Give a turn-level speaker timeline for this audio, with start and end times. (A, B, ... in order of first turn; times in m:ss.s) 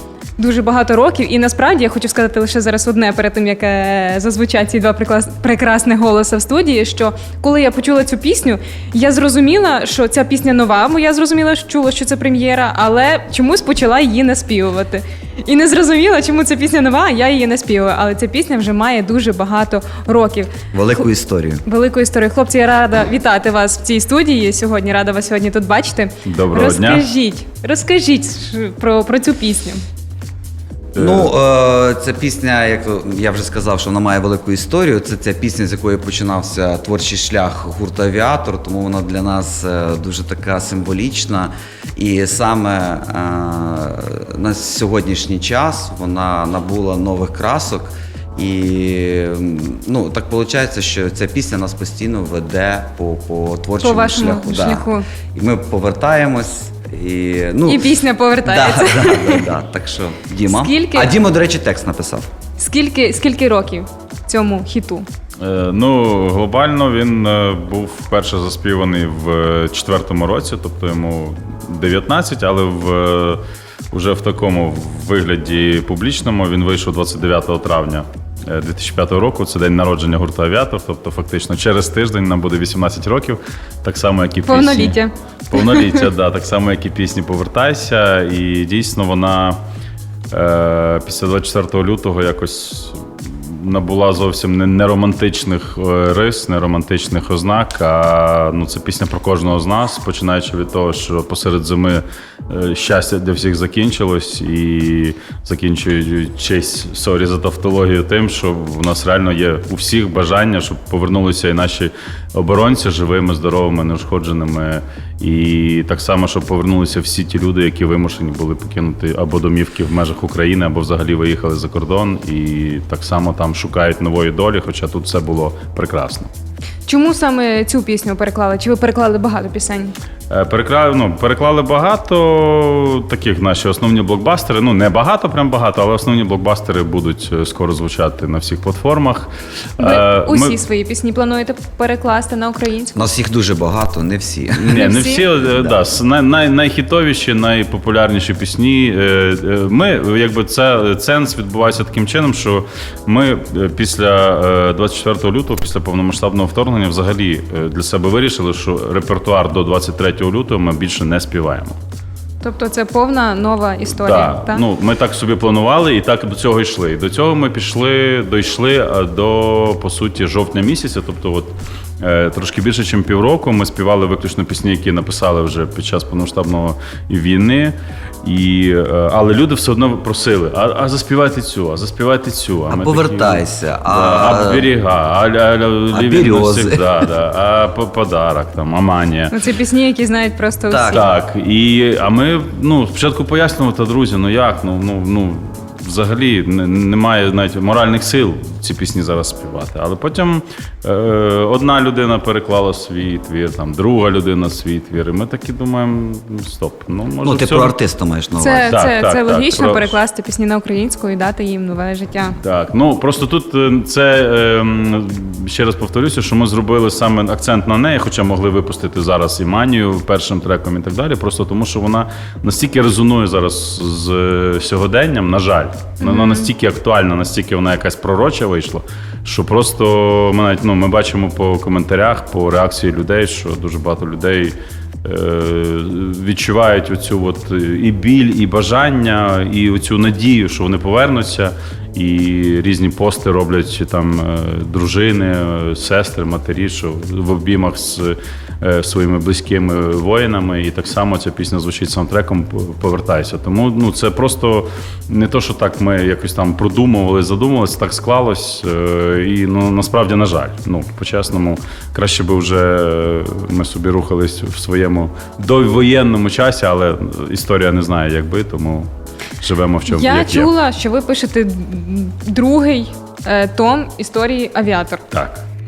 0:00.4-0:21.0 A
0:20.7-0:21.6 B
0:21.6-0:29.8 A
0:26.2-0:27.1 C
0:31.0-0:31.3 C
0:31.0-1:02.3 B
0:53.8-0:55.1 A
0:57.7-0:59.4 A
1:00.5-1:01.1 A
1:02.6-1:05.1 A
1:05.4-1:25.0 C
1:24.4-1:26.0 A
1:25.5-1:29.6 C
1:30.3-2:06.3 C
2:06.9-2:09.9 A
2:10.3-2:20.6 C
2:19.8-2:23.0 A
2:22.9-2:24.9 B
2:24.6-2:41.8 C
2:24.8-2:25.2 A
2:25.4-2:25.8 B
2:42.4-2:44.6 A
2:43.9-3:09.3 C
3:02.7-3:04.7 B
3:05.9-3:06.9 B
3:09.3-3:11.1 A
3:10.7-3:11.1 B
3:10.9-3:27.8 C
3:27.2-3:28.7 B
3:28.4-3:32.4 A
3:28.6-3:29.9 C
3:32.4-4:30.5 C
3:46.0-3:46.5 A
4:29.8-4:35.1 A
4:35.1-4:35.4 C